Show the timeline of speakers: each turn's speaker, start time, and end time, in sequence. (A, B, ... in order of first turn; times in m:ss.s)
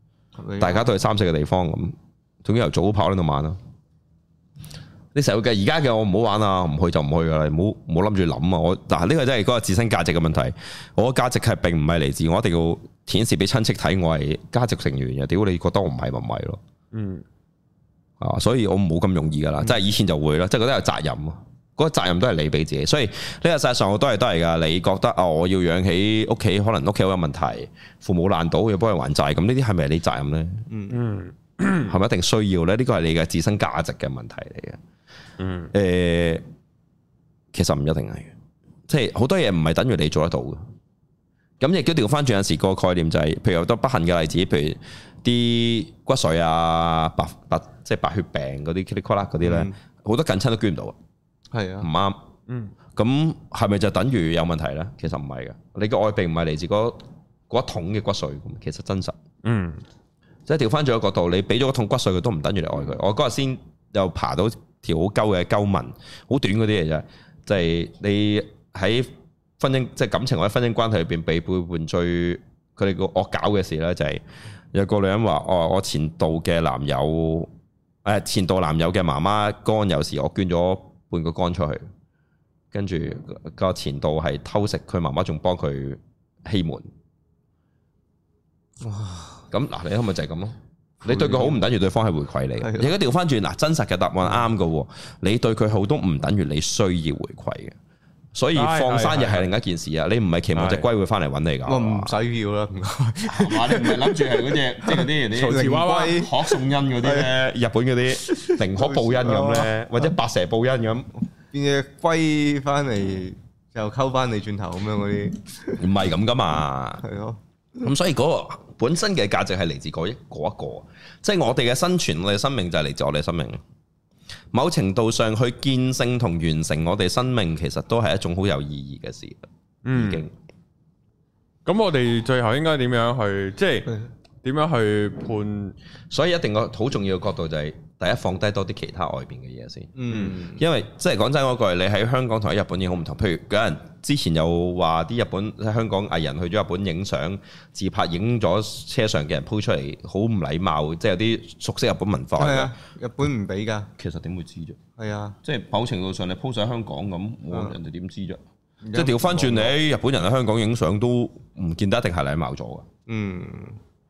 0:00.4-0:00.9 A
0:00.6-0:03.6 B
0:05.2-0:16.6 B
0:16.9-0:17.2 C
0:18.2-0:30.6 B
0:30.7-0:31.0 A
0:30.9-0:31.9 C
0:31.9-0:34.8 B
0:35.4-0:35.7 C
0:35.7-0:36.4 B
0:37.5-0:38.3 B
0:38.9-0:40.6 B
0:41.6-0:51.0 B
0:49.4-0:49.7 A
0:51.5-0:51.9 A
0:51.8-0:52.2 B
0:52.5-0:52.7 C
0:53.0-0:59.2 B
0:59.4-0:59.8 C
1:00.5-1:14.2 B
1:14.7-1:17.5 B
1:18.0-1:21.8 B
1:22.7-1:26.9 B
1:28.8-1:29.4 A
1:29.5-1:37.8 B
1:31.0-1:31.6 A
1:32.6-1:32.9 A
1:38.4-1:42.2 B
1:38.5-1:39.5 C
1:40.6-1:40.9 C
1:41.7-1:47.4 A
1:43.3-1:51.1 B
1:45.3-1:46.3 C
1:48.2-1:49.8 A
1:51.5-1:55.9 A
1:55.8-1:57.0 B
1:57.0-1:57.4 A
1:57.8-2:03.6 B
2:04.5-2:10.3 B
2:09.8-2:10.3 C
2:11.6-2:15.8 C
2:16.1-2:32.8 B
2:20.0-2:20.6 A
2:32.4-2:33.9 A
2:34.0-2:34.8 B
2:35.0-2:35.4 A
2:35.4-2:38.4 B
2:38.8-2:39.8 A
2:38.9-2:42.9 B
2:43.1-2:43.8 A